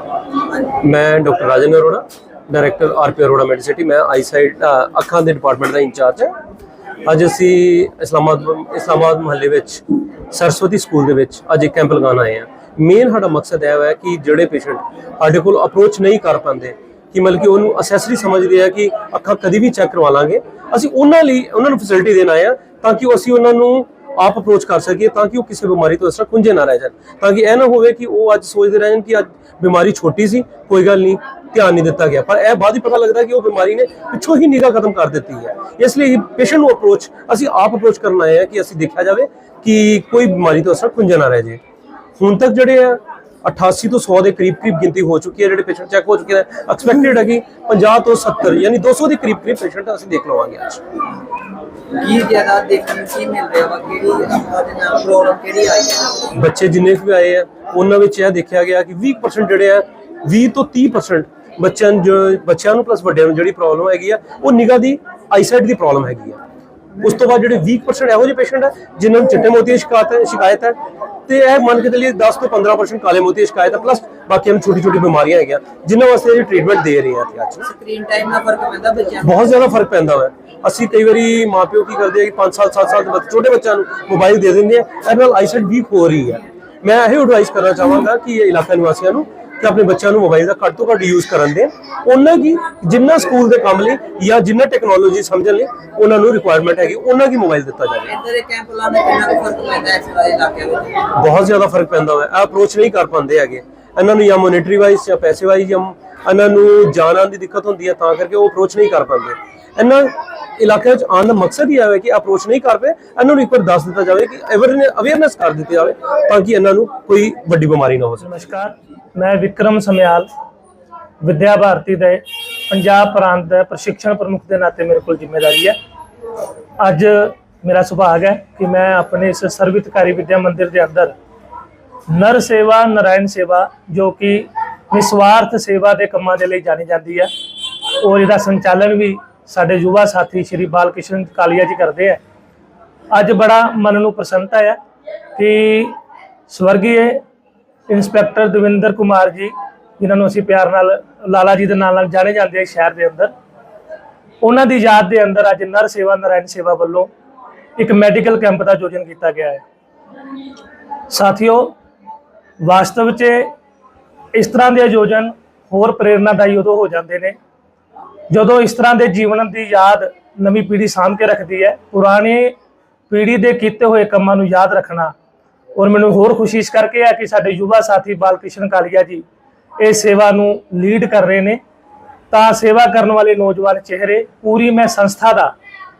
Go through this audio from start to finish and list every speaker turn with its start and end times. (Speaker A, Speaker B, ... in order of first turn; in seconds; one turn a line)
Speaker A: 0.4-0.7
Speaker B: 0.8-6.3
Speaker B: 7.1-41.6
Speaker B: 42.2-50.8
Speaker A: 51.9-56.3
Speaker B: 56.4-66.4
Speaker B: 67.0-77.7
Speaker A: 77.7-79.5
Speaker B: 79.2-98.2
Speaker A: 98.1-101.1
Speaker B: 101.2-118.3
Speaker C: 118.2-120.3
Speaker C: 121.2-125.8
Speaker C: 126.8-131.2
Speaker C: 132.1-137.3
Speaker C: 138.0-142.2
Speaker C: 143.1-144.8
Speaker C: 145.4-146.0
Speaker C: 146.5-147.2
Speaker C: 147.9-153.3
Speaker C: 154.4-157.1
Speaker C: 157.8-159.6
Speaker C: 161.1-161.8
Speaker C: 162.6-163.5
Speaker C: 164.3-167.3
Speaker C: 168.3-172.5
Speaker C: 173.1-175.1
Speaker C: 175.8-179.2
Speaker C: 179.8-181.6
Speaker C: 182.3-185.5